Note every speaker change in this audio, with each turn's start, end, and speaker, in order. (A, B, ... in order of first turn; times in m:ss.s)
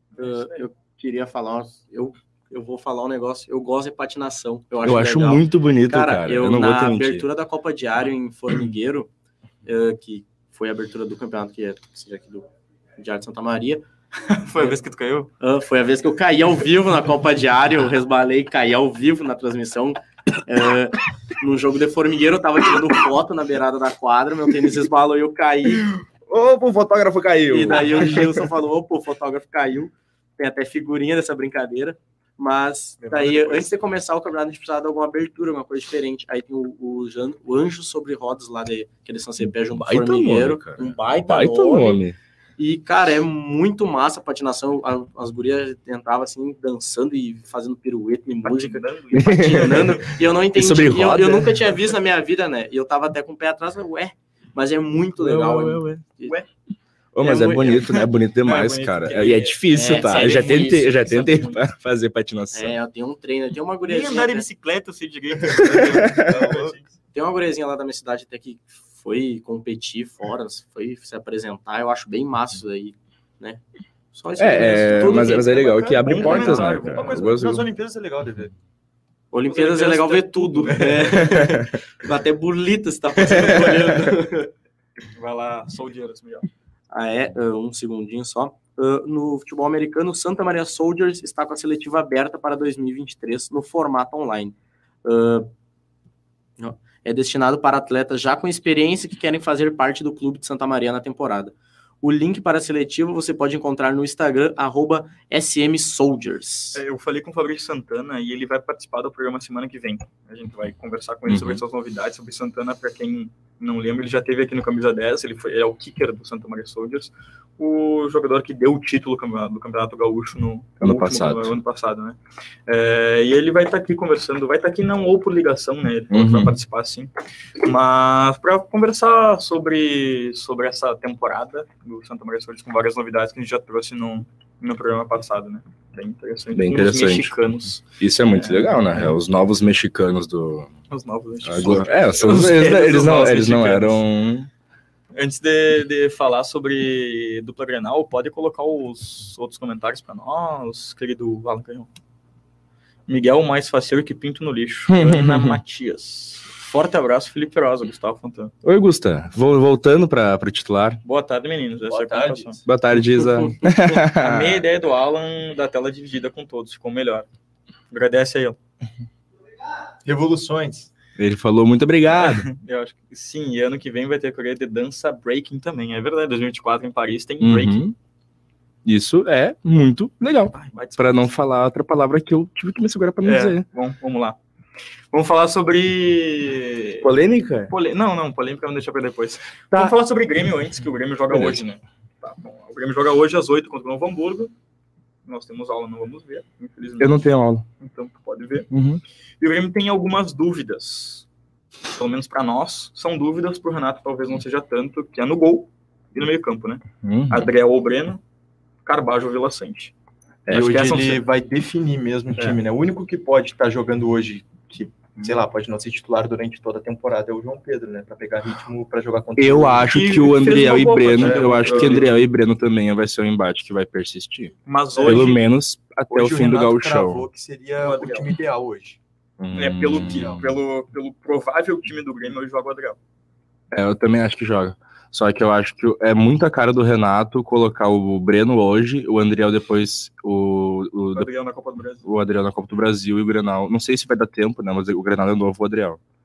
0:00.2-0:00.6 A
0:00.2-0:09.1 B
0:04.8-0:07.2 C
0:09.6-0:12.4 B
0:13.0-0:13.8 B
0:14.2-0:15.3 A
0:15.4-0:25.9 B
0:26.3-0:28.4 C
0:27.5-0:42.0 B
0:33.0-0:33.6 D
0:39.7-0:42.2 C
0:42.6-0:56.4 B
0:48.4-0:50.1 A
0:49.1-0:51.7 C
0:55.2-0:56.0 C
0:57.1-1:02.8 C
0:57.2-0:57.9 B
0:58.4-1:01.6 A
0:59.7-1:00.9 B
1:02.5-1:04.5 B
1:03.8-1:06.9 A
1:05.6-1:06.7 D
1:05.6-1:06.3 C
1:07.1-1:13.6 B
1:14.1-1:15.8 B
1:14.4-1:17.6 C
1:15.0-1:18.5 D
1:16.0-1:17.6 A
1:19.3-1:24.5 B
1:19.5-1:21.4 A
1:20.7-1:21.0 D
1:21.2-1:21.6 C
1:23.2-1:24.0 C
1:25.1-1:26.5 A
1:26.9-1:35.5 B
1:36.6-1:46.8 B
1:46.7-2:07.1 A
1:51.3-1:51.6 C
2:00.8-2:01.5 C
2:06.1-2:06.6 C
2:07.6-2:19.1 A
2:16.5-2:17.3 C
2:18.0-2:20.7 C
2:20.9-2:24.0 A
2:21.4-2:24.5 C
2:25.1-2:31.9 A
2:33.1-2:38.5 A
2:34.9-2:35.6 C
2:38.6-2:41.0 C
2:41.0-2:42.6 A
2:41.9-2:42.6 D
2:42.6-2:44.6 C
2:44.0-2:47.3 A
2:47.9-2:48.6 A
2:50.0-2:50.9 D
2:51.2-2:52.5 C
2:52.1-2:57.8 A
2:57.4-2:57.9 C
2:58.8-3:03.6 C
3:00.5-3:01.3 A
3:03.2-3:04.4 A
3:05.1-3:07.1 A
3:07.0-3:07.7 C
3:07.7-3:14.5 A
3:11.3-3:11.6 C
3:15.2-3:17.2 A
3:17.0-3:17.6 C
3:17.8-3:18.7 A
3:18.7-3:19.0 C
3:19.4-3:21.2 A
3:21.9-3:28.2 A
3:27.0-3:27.5 C
3:28.8-3:29.9 A
3:30.5-3:30.7 C
3:30.5-3:31.2 A
3:30.5-3:40.4 D
3:39.4-3:47.2 C
3:39.9-3:42.1 A
3:41.1-3:42.1 D
3:44.6-3:45.4 A
3:44.9-3:45.3 D
3:46.1-3:49.0 D
3:47.8-3:48.3 A
3:49.4-3:50.6 C
3:49.5-3:53.0 A
3:50.0-3:50.4 D
3:53.7-4:01.3 C
4:01.1-4:02.0 A
4:02.0-4:06.0 C